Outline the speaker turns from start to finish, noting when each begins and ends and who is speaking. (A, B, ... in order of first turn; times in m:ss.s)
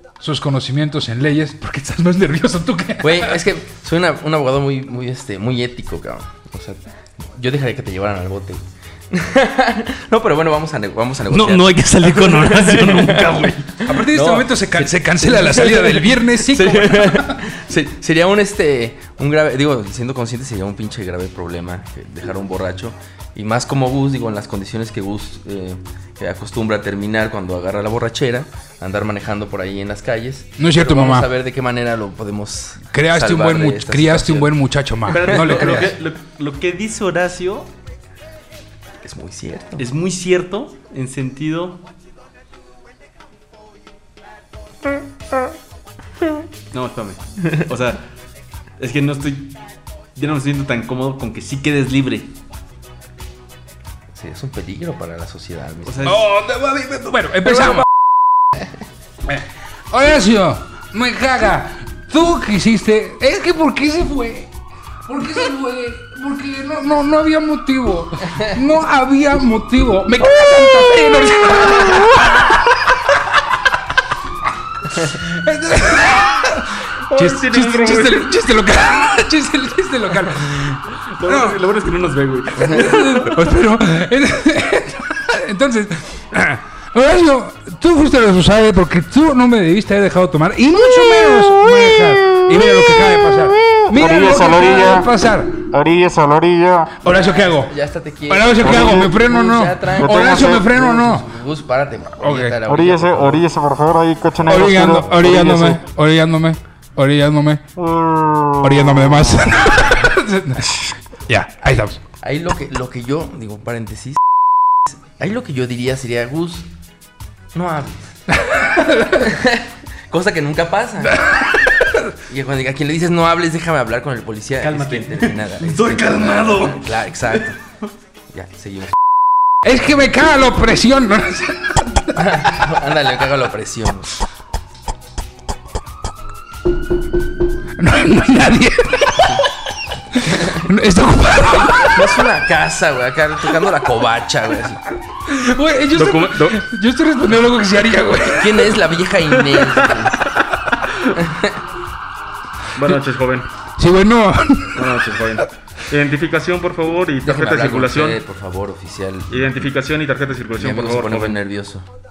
0:00.2-0:03.4 A
0:03.0-0:34.5 B
0:11.3-0:14.4 C
0:13.8-0:17.4 A
0:30.6-0:31.3 A
0:32.9-0:35.9 A
0:35.1-0:37.7 C
0:35.2-0:35.8 B
0:39.0-0:39.8 B
0:39.8-0:41.8 C
0:46.7-0:48.0 C
0:48.8-0:49.6 C
0:50.2-0:52.3 C
0:54.1-0:56.2 B
0:55.8-0:56.2 C
0:56.0-0:57.9 A
0:59.2-1:04.5 A
1:05.0-1:13.6 A
1:14.9-1:21.6 A
1:17.1-1:18.3 C
1:20.9-1:23.4 C
1:22.6-1:35.6 A
1:32.4-1:32.7 D
1:33.7-1:35.1 D
1:35.7-1:37.0 D
1:37.0-1:37.7 A
1:37.0-1:43.5 B
1:38.3-1:41.3 A
1:38.6-1:39.2 D
1:39.9-1:40.7 D
1:42.2-1:42.6 A
1:42.6-1:45.8 D
1:44.4-1:47.6 A
1:44.5-1:45.4 B
1:47.8-1:49.5 D
1:48.6-1:52.0 A
1:49.6-1:49.9 B
1:52.2-1:54.2 B
1:54.9-1:56.7 B
1:57.5-1:58.3 B
1:58.3-1:59.4 A
1:59.1-2:01.3 B
2:01.0-2:02.1 A
2:02.3-2:07.6 B
2:04.6-2:07.4 C
2:08.3-2:08.9 B
2:09.6-2:12.5 A
2:12.2-2:14.1 B
2:17.8-2:19.4 A
2:19.2-2:19.4 B
2:20.1-2:22.2 A
2:20.3-2:20.6 B
2:21.5-2:24.8 B
2:25.1-2:28.8 A
2:25.9-2:26.6 C
2:28.4-2:30.3 B
2:30.8-2:31.2 C
2:31.2-2:31.6 B
2:32.7-2:33.5 C
2:33.8-2:34.8 A
2:34.7-2:38.2 C
2:37.2-2:39.6 B
2:39.3-2:41.4 C
2:40.6-2:41.8 B